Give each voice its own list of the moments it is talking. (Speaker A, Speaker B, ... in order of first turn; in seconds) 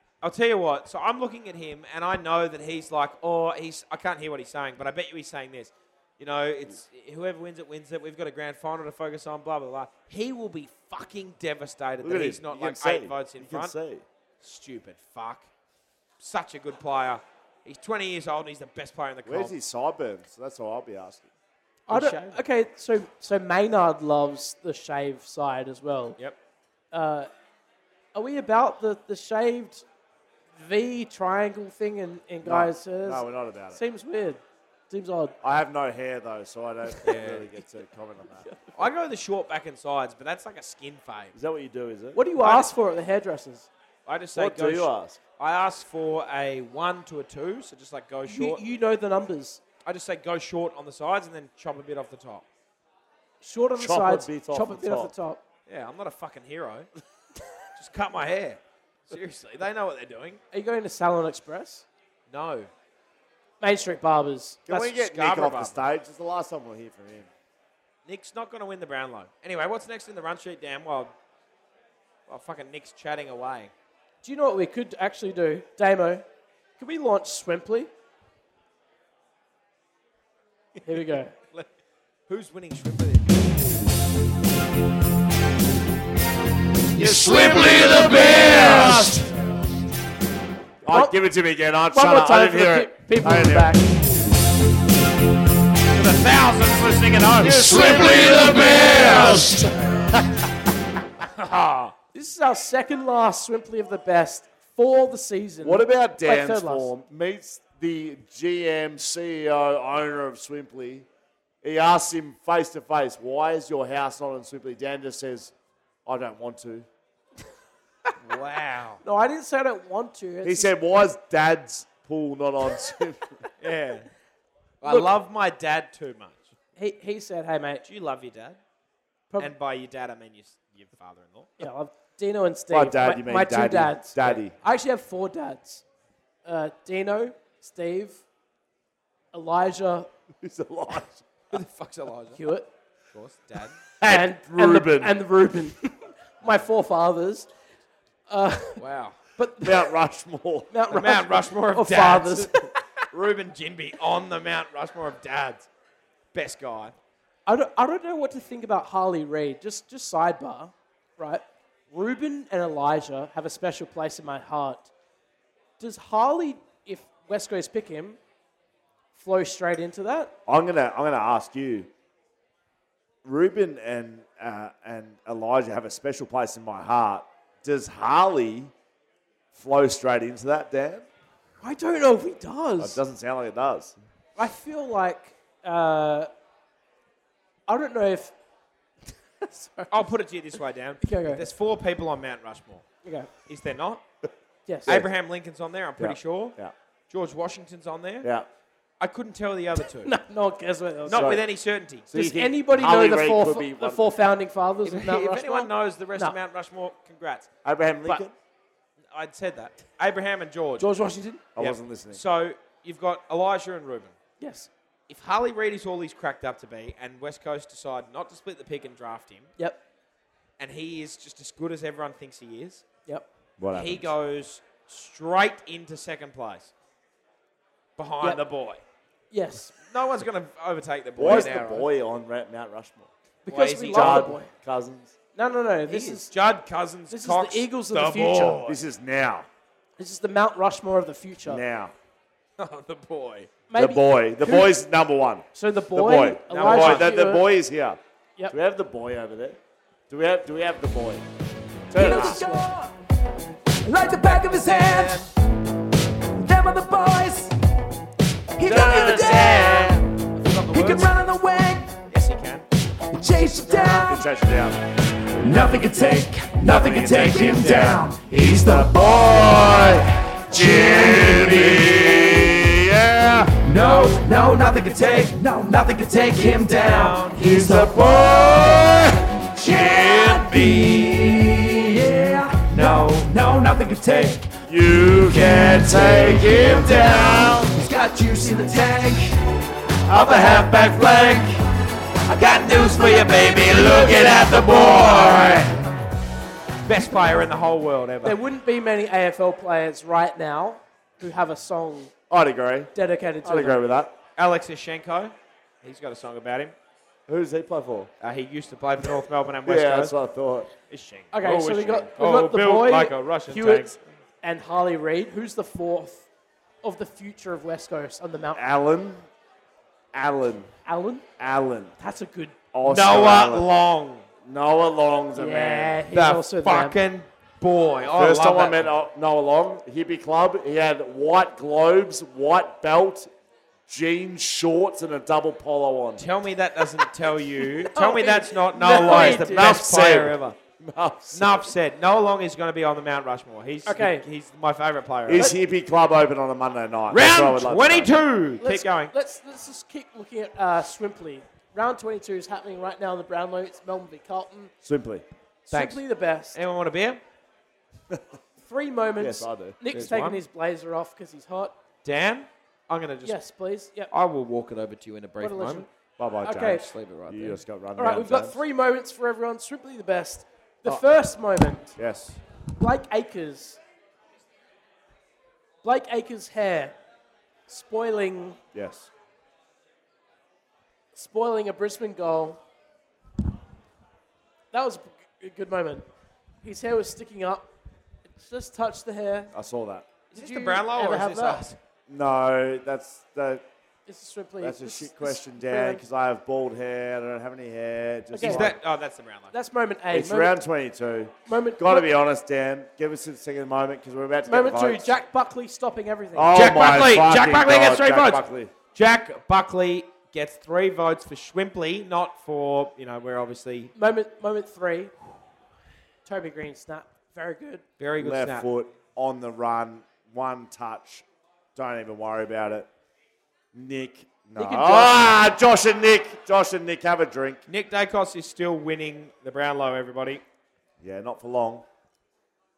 Speaker A: 0.2-13.7, 14.4-15.5, 16.2-19.5, 21.9-22.4, 37.0-37.5, 38.7-41.3, 42.4-42.7, 44.0-48.6, 49.8-52.5, 55.7-56.9, 57.8-60.4, 62.3-62.7, 64.7-65.8, 68.0-71.1, 72.3-73.7, 82.3-83.5, 87.0-89.1, 95.9-99.6, 101.3-101.9, 118.2-119.0, 123.6-124.1, 124.8-126.5, 127.8-128.6, 129.4-131.6, 141.5-142.4, 143.1-143.8, 148.8-149.2, 150.9-155.7, 156.3-156.9, 189.9-192.8, 193.4-194.0, 194.9-196.6, 197.1-198.3, 199.0-200.1, 201.1-202.1, 204.8-207.5, 209.1-210.9, 211.6-214.2, 215.1-219.5, 220.6-222.8, 223.7-226.7, 228.0-228.8, 229.8-231.9, 233.5-234.3, 235.9-238.8, 242.6-243.5, 246.5-247.1, 254.7-255.3, 258.7-261.2, 262.1-262.6, 270.5-272.5, 276.6-277.9, 280.3-281.5, 282.6-284.3, 285.6-287.7, 290.1-291.5, 292.3-295.8, 296.8-298.4, 304.4-306.7, 308.2-310.1, 310.9-314.0, 322.9-324.2, 326.1-328.9, 336.2-340.6, 341.3-345.5, 347.1-349.1, 355.7-357.2, 359.9-360.4, 362.0-363.4, 364.1-365.9, 366.7-367.6, 390.3-391.8, 398.4-399.5, 406.5-408.4, 408.9-413.9, 418.0-418.7, 427.7-430.4
Speaker B: 12.0-14.0, 19.2-21.3, 32.4-33.8, 35.4-38.5, 41.3-42.2, 44.3-45.2, 53.8-55.1, 64.7-67.3, 87.0-89.3, 90.8-93.8, 97.4-100.4, 105.6-111.1, 111.6-115.5, 116.0-116.8, 120.4-123.4, 132.7-134.5, 140.4-141.3, 144.0-145.1, 149.6-150.7, 170.4-171.9, 173.2-178.7, 179.5-181.1, 182.8-183.9, 196.0-196.7, 201.1-201.4, 202.1-204.1, 207.6-208.3, 211.6-212.2, 223.6-224.1, 231.2-233.1, 233.9-235.1, 238.6-239.5, 241.4-241.9, 243.7-248.0, 248.5-249.6, 250.1-251.2, 251.9-252.4, 258.6-260.0, 263.9-264.8, 265.9-273.6, 277.3-280.7, 284.6-287.7, 290.1-291.0, 302.3-302.9, 303.4-304.1, 307.3-308.1, 309.6-310.7, 318.5-319.2, 320.1-320.7, 321.4-321.9, 322.7-323.7, 324.4-326.0, 328.1-333.3, 333.9-336.2, 338.9-341.6, 345.3-348.1, 354.8-355.2, 359.2-359.8, 366.2-368.6, 371.9-372.4, 378.7-379.1, 389.5-390.1, 392.1-393.6, 394.6-398.8, 400.1-405.1, 406.3-408.7, 418.2-422.9, 423.7-427.6, 431.0-431.8
Speaker C: 21.9-26.2, 26.9-27.3, 28.1-29.8, 30.5-35.3, 38.4-38.7, 42.1-43.7, 48.3-49.6, 53.4-55.4, 60.5-61.9, 63.6-64.7, 74.2-76.2, 76.8-77.9, 80.8-81.3, 90.9-91.1, 91.9-93.8, 102.1-106.9, 119.0-120.7, 124.8-125.1, 126.8-127.8, 131.6-135.8, 136.4-138.2, 139.3-140.1, 142.3-142.7, 144.0-147.5, 148.3-148.8, 149.4-149.9, 150.7-152.7, 157.4-164.9, 165.8-168.2, 169.1-170.3, 181.6-183.0, 184.3-186.3, 187.7-188.3, 189.4-190.1, 191.0-191.4, 193.0-193.3, 194.7-195.0, 200.0-201.4, 202.1-206.3, 210.8-211.4, 214.4-214.7, 229.3-229.7, 233.4-234.5, 235.3-236.3, 237.1-238.6, 240.0-241.6, 243.7-244.7, 245.5-247.4, 251.9-252.7, 298.2-302.1, 302.9-303.8, 311.3-316.2, 316.8-318.6, 320.9-321.2, 322.0-322.6, 325.3-327.0, 337.9-339.7, 343.9-344.2, 348.6-354.7, 355.7-356.6, 358.6-361.7, 363.2-364.1, 365.4-365.9, 366.4-366.8, 368.0-371.9, 372.8-373.8, 375.8-376.9, 377.7-378.6, 381.1-382.6, 384.7-386.0, 386.6-387.7, 388.4-389.5, 390.3-391.6, 394.1-396.0, 398.3-398.7, 399.5-400.5, 401.5-402.1, 404.5-406.5, 413.9-415.1, 416.2-417.8, 424.6-425.3
Speaker D: 87.2-88.8, 252.0-252.9, 253.8-255.3, 256.4-257.5, 258.6-259.9, 260.7-261.9, 263.2-264.2, 265.4-269.3, 273.6-278.0, 279.5-284.5, 285.6-285.9, 287.7-289.3, 290.5-291.3